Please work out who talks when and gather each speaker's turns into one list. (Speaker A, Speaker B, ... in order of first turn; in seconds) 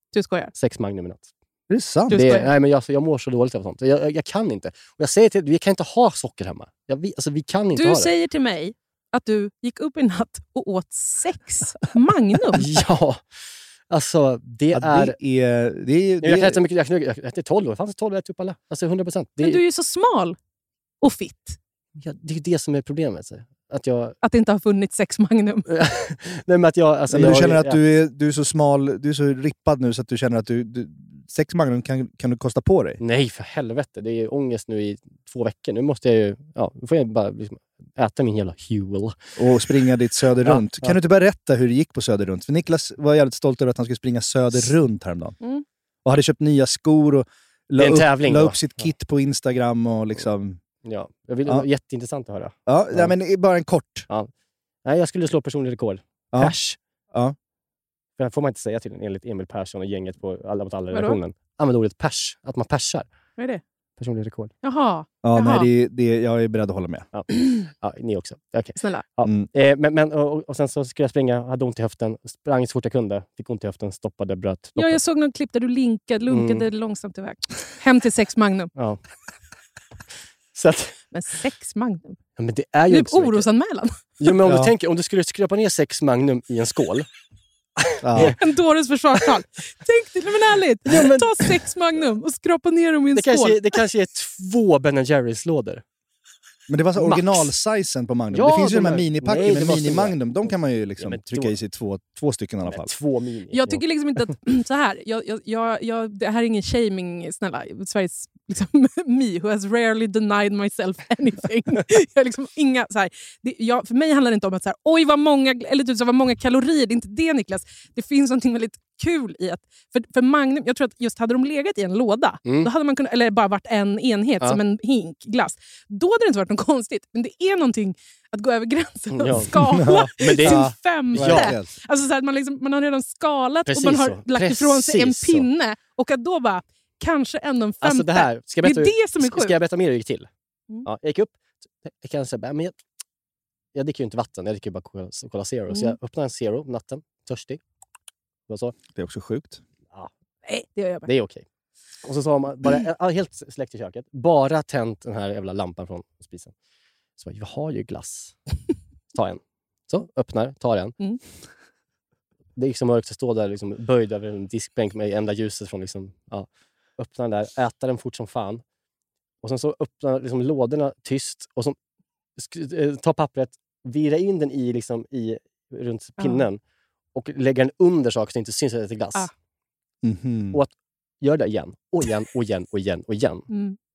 Speaker A: 0.1-0.5, 2.1-2.5, 7.8-12.6, 19.4-20.4, 21.0-21.6, 24.2-25.6, 60.9-61.2, 64.6-65.7, 68.8-69.0, 74.8-78.7, 81.1-82.2, 82.9-84.1, 88.2-93.7, 103.5-139.5, 150.4-151.1, 176.2-176.4, 183.5-183.8
Speaker B: 0.5-1.3, 2.1-8.1, 12.6-15.2, 16.2-19.6, 22.0-24.2, 25.7-27.8, 33.0-39.2, 40.4-41.0, 47.8-48.9, 50.8-53.1, 54.8-56.8, 58.2-63.1, 64.0-64.5, 67.1-75.0, 76.3-76.7, 78.8-79.0, 80.5-81.0, 82.4-83.5, 84.2-87.1, 87.8-88.4, 90.9-91.6, 93.1-95.8, 96.9-97.5, 98.3-101.6, 102.7-103.8, 129.1-131.5, 133.7-135.5, 137.8-140.3, 140.8-142.8, 143.7-147.6, 148.5-148.8, 151.1-151.4, 152.0-156.5, 157.2-158.4, 159.1-160.9, 162.6-168.6, 169.4-171.8, 172.4-176.6, 177.1-179.3, 180.5-183.5
Speaker C: 1.7-2.4, 14.7-16.6, 27.1-33.0, 39.4-45.4, 46.0-50.6, 52.7-54.1, 65.2-67.1, 84.5-84.7, 88.0-88.3, 96.7-102.9, 129.6-131.7, 148.9-149.6, 180.0-180.6